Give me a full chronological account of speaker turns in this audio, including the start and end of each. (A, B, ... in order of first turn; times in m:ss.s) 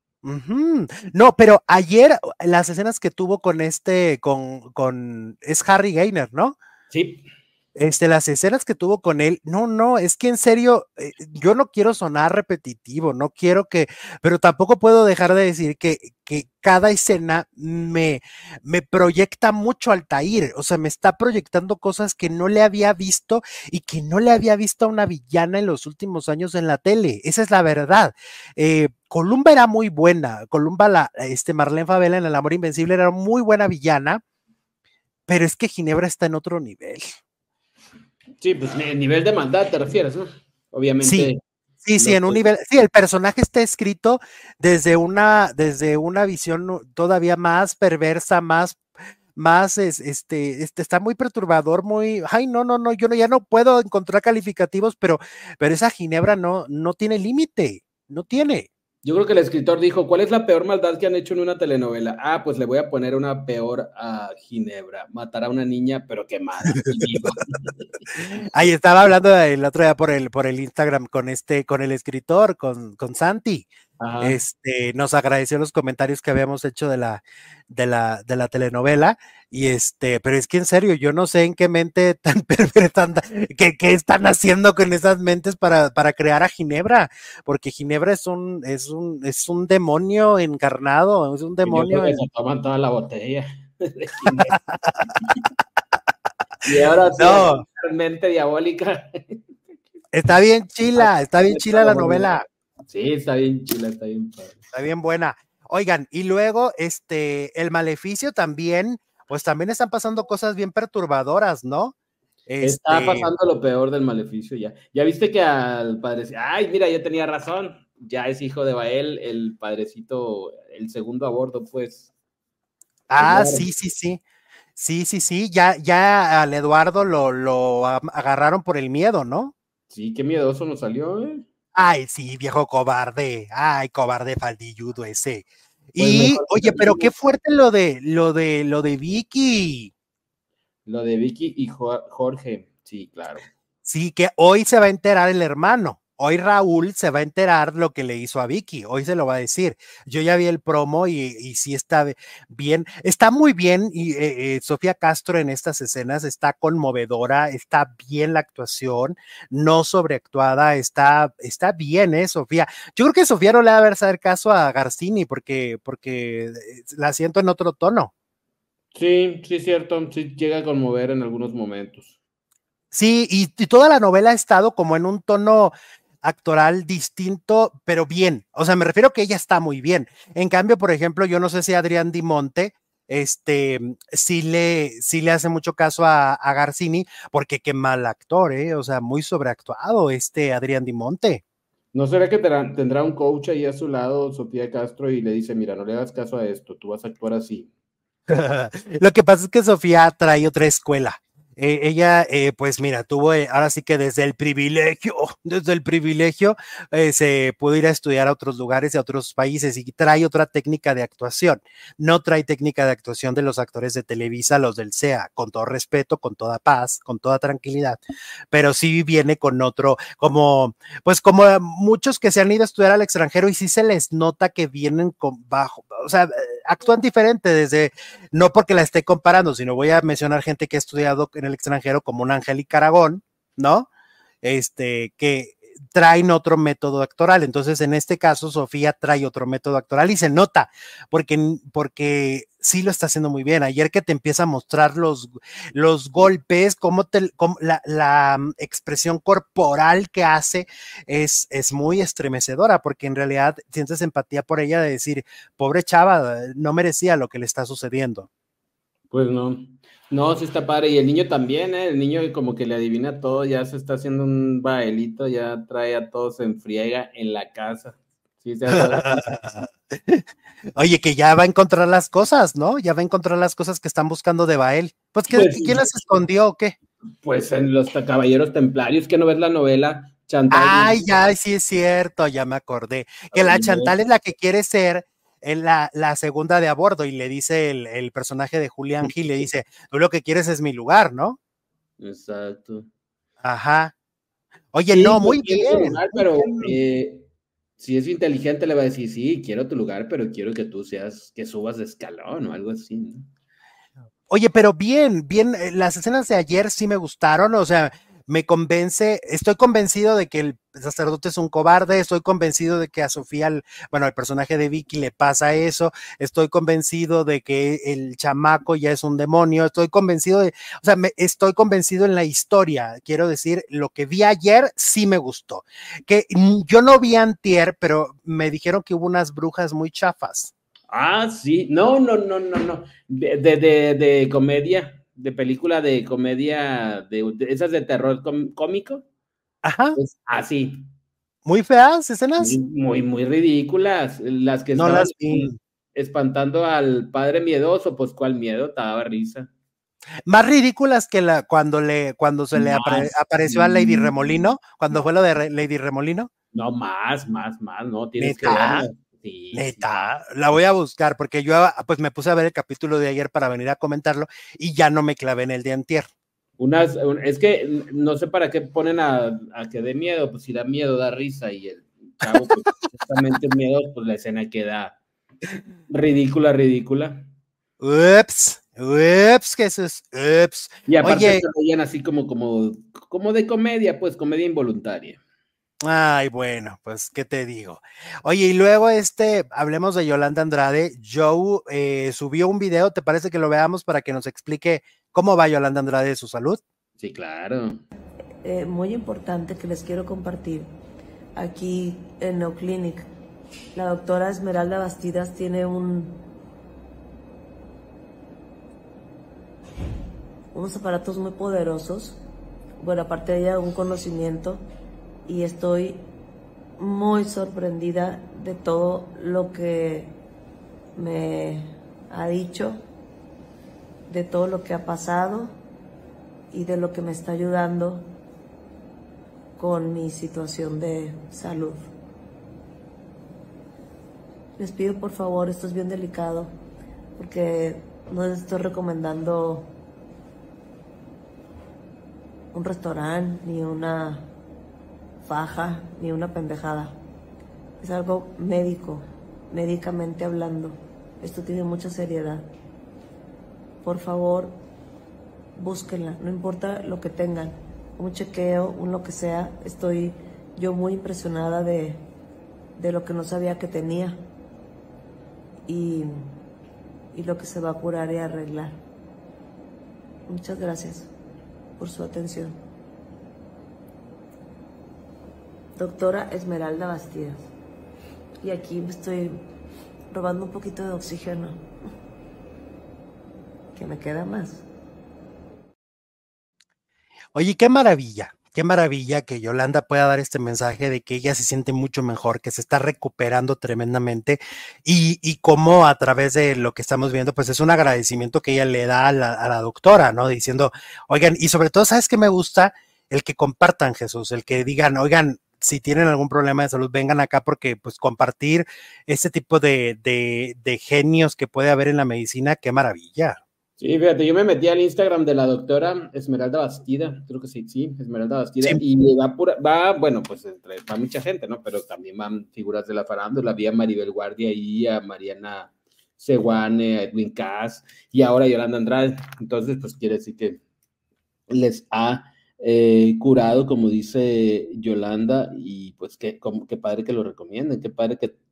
0:00.2-0:06.6 A
0:06.9-0:07.2 B
0:07.8-0:34.2 A
0:35.3-0:37.1 A
0:38.4-0:41.4 B
0:41.0-0:41.3 A
0:41.8-0:48.8 A
0:42.0-0:42.4 B
0:49.4-0:58.7 A
0:59.0-1:08.3 B
1:06.8-1:07.3 A
1:08.2-1:13.7 A
1:14.0-1:14.4 B
1:14.2-1:32.2 A
1:31.6-1:34.6 B
1:34.4-1:35.2 A
1:36.6-1:39.4 B
1:37.2-1:37.6 A
1:40.1-1:42.5 A
1:41.0-1:42.3 B
1:42.9-1:44.6 B
1:44.7-1:51.9 A
1:52.5-1:53.3 A
1:52.6-2:02.1 B
2:03.1-2:04.2 A
2:03.2-2:03.7 B
2:04.8-2:09.5 A
2:09.9-2:11.4 B
2:11.8-2:19.9 A
2:16.0-2:17.1 B
2:20.9-2:23.4 B
2:23.9-2:48.1 A
2:48.9-2:52.1 B
2:52.9-2:55.7 A
2:56.2-3:11.4 A
3:11.9-3:17.7 B
3:18.3-3:38.0 A
3:38.5-3:53.9 A
3:54.4-4:18.3 A
4:19.1-4:29.3 B
4:28.7-4:30.2 A
4:30.8-4:36.8 A
4:35.3-4:35.8 B
4:37.2-4:41.0 B
4:40.5-4:51.4 A
4:43.3-4:44.0 B
4:52.0-4:52.9 B
4:53.4-4:53.9 A
4:54.7-4:56.8 A
4:54.9-4:57.3 B
4:57.8-5:03.3 B
5:04.3-5:30.5 A
5:30.9-5:39.0 B
5:39.6-5:40.0 A
5:40.0-5:40.9 B
5:41.5-5:42.6 A
5:42.4-5:49.5 B
5:44.8-5:45.6 A
5:50.3-5:56.3 A
5:52.6-5:54.4 B
5:56.5-5:59.9 B
5:58.2-5:58.9 A
5:59.5-6:06.1 A
6:06.6-6:15.0 B
6:15.9-6:17.3 B
6:17.8-6:21.4 A
6:20.9-6:25.2 B
6:25.8-6:36.6 A
6:37.0-6:37.8 B
6:38.4-6:40.7 C
6:41.4-6:43.1 C
6:43.7-6:46.2 C
6:50.5-6:52.2 C
6:52.8-6:54.6 C
6:55.3-6:56.0 C
6:56.8-7:00.1 C
7:01.0-7:02.8 C
7:04.1-7:05.5 C
7:06.5-7:08.1 C
7:09.6-7:11.9 C
7:14.6-7:16.5 C
7:17.2-7:19.7 C
7:22.5-7:24.3 C
7:25.2-7:27.0 C
7:27.8-7:32.5 C
7:33.8-7:34.6 C
7:35.6-7:42.0 C
7:42.8-7:44.2 C
7:45.7-7:46.4 C
7:47.1-7:48.8 C
7:50.3-7:51.1 C
7:51.8-7:52.6 C
7:55.8-7:57.5 C
7:58.4-7:59.4 C
8:00.1-8:01.6 C
8:03.8-8:04.6 C
8:07.4-8:33.4 A
8:33.8-8:50.6 B
8:51.5-8:58.3 B